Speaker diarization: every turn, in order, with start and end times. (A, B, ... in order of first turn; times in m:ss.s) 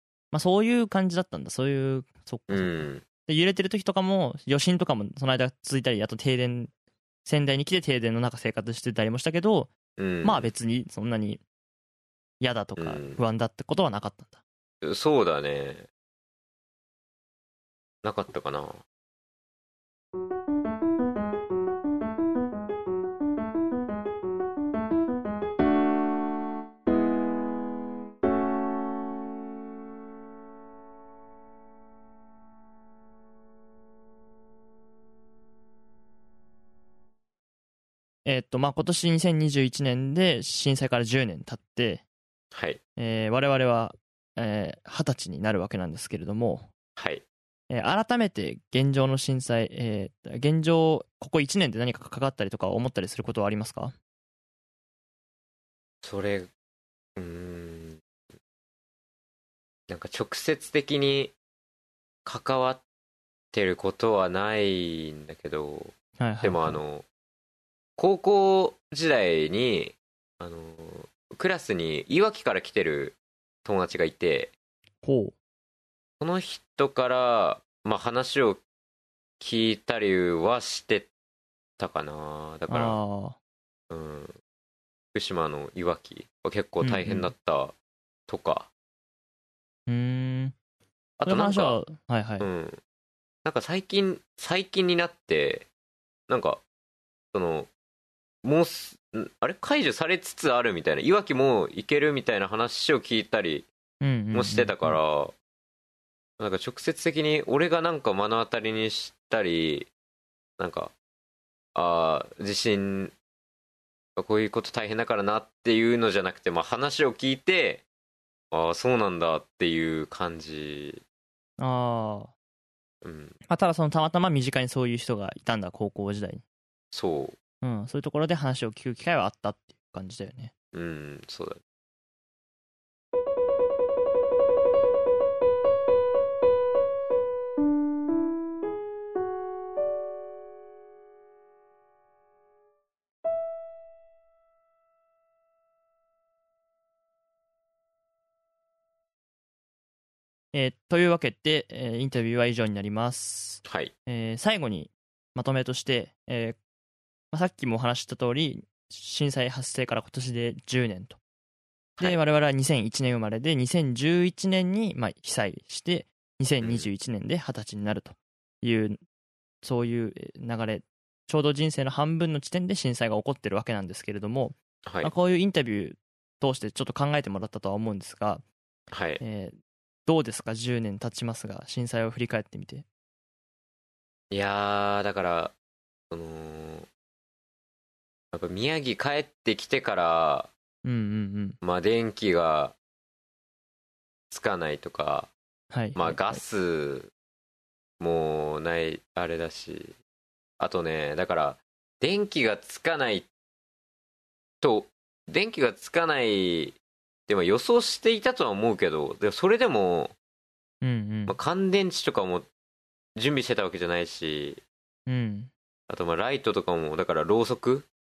0:00.3-0:06.7 A
0:02.5-0:03.0 B
0:07.2-0:11.4 A
0:10.0-0:10.5 B
0:12.4-0:14.4 A
0:12.8-0:13.2 B
0:14.8-0:15.9 B
0:18.0-0:18.8 B
0:38.2-0:42.0 A
0:42.5-0:42.8 B
0:43.0-0:46.7 A
0:47.0-0:47.2 B
0:47.7-0:53.9 A
0:56.0-0:56.5 B
0:57.2-0:58.0 B
0:59.9-1:01.3 B
1:02.2-1:02.8 B
1:03.5-1:07.0 B
1:06.2-1:06.8 A
1:08.0-1:14.5 B
1:15.0-1:15.3 A
1:16.2-1:18.6 B
1:19.4-1:21.1 B
1:21.8-1:23.0 B
1:22.7-1:23.4 A
1:23.9-1:24.3 B
1:25.1-1:27.7 B
1:26.8-1:27.3 A
1:28.3-1:28.7 B
1:29.9-1:30.5 A
1:31.2-1:31.8 B
1:31.2-1:32.5 A
1:32.4-1:32.8 B
1:33.4-1:35.7 B
1:36.3-1:36.6 B
1:37.3-1:37.7 B
1:38.4-1:43.7 B
1:44.0-1:45.0 A
1:44.3-1:45.3 B
1:46.4-1:49.9 B
1:50.6-1:50.9 B
1:51.7-1:53.1 B
1:54.2-1:57.8 B
1:58.5-2:01.0 B
2:01.6-2:02.3 A
2:03.0-2:03.4 B
2:03.5-2:06.4 A
2:06.9-2:07.4 B
2:07.6-2:10.5 A
2:10.7-2:11.6 B
2:30.5-2:36.6 A
2:33.6-2:33.9 B
2:37.3-2:41.2 A
2:42.0-2:49.0 A
2:46.6-2:46.9 B
2:49.6-2:58.4 A
2:54.8-2:55.1 B
2:58.9-2:59.2 B
2:59.2-2:59.6 A
3:00.1-3:02.8 A
3:04.3-3:05.5 B
3:06.1-3:06.9 B
3:08.3-3:10.5 B
3:10.8-3:11.6 A
3:11.6-3:12.8 B
3:14.3-3:15.3 B
3:15.7-3:16.4 A
3:15.9-3:17.1 B
3:18.0-3:19.9 B
3:20.6-3:23.3 B
3:24.6-3:30.1 B
3:30.8-3:31.4 A
3:31.3-3:32.5 B
3:33.2-3:34.6 B
3:35.1-3:35.5 A
3:35.9-3:37.9 B